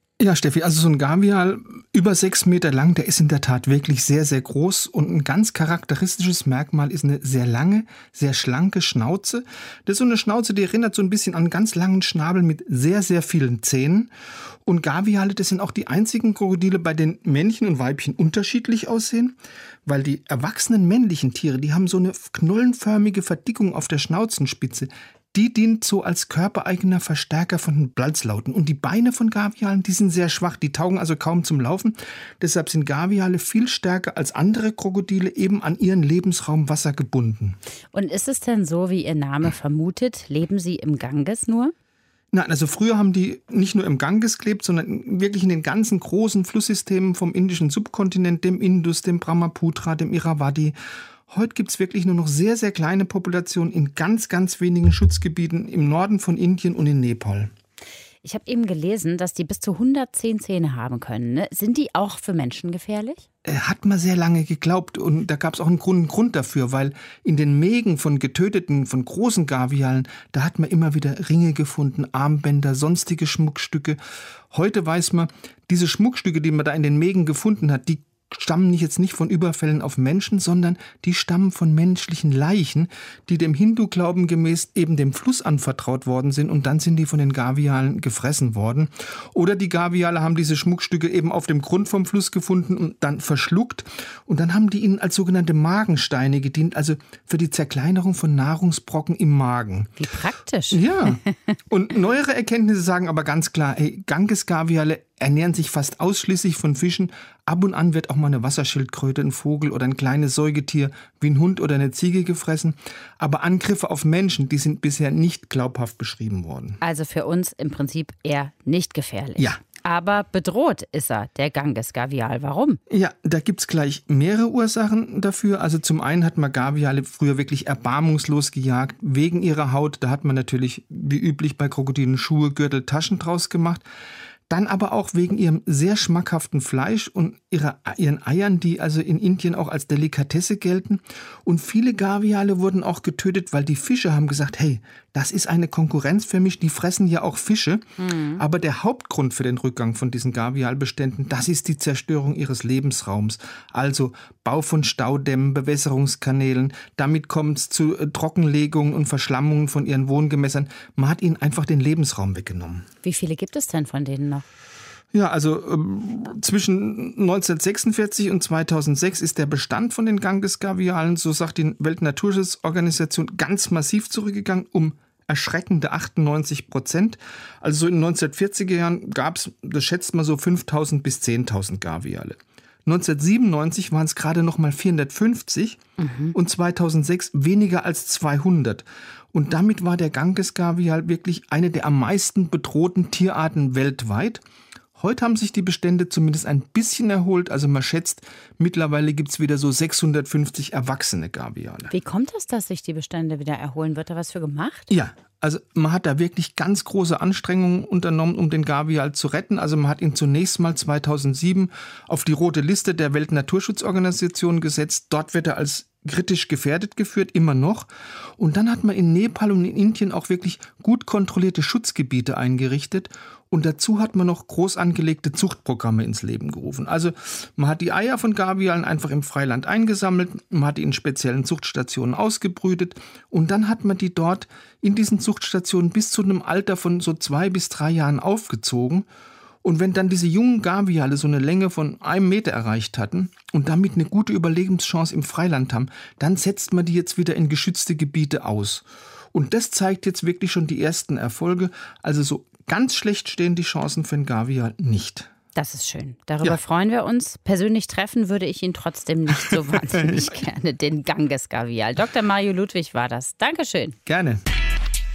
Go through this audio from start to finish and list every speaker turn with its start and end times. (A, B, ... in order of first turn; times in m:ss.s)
0:00.2-0:14.1 A
0:14.6-0:37.6 A
0:37.9-0:41.7 B
0:42.3-0:50.8 A
0:51.3-0:57.5 A
0:58.2-1:03.2 B
1:03.4-1:14.0 A
1:14.5-1:40.0 A
1:40.0-1:40.8 B
1:40.7-1:56.8 A
1:56.8-2:02.8 B
2:02.9-2:13.8 A
2:14.5-2:42.9 A
2:28.0-2:28.4 B
2:43.0-2:44.4 B
2:45.1-3:05.8 A
3:06.0-3:06.4 B
3:06.3-3:14.4 A
3:15.0-3:21.9 A
3:21.9-3:24.9 B
3:24.9-3:59.1 A
3:59.6-4:15.3 A
4:15.6-4:24.0 B
4:19.4-4:20.3 A
4:24.1-4:24.4 A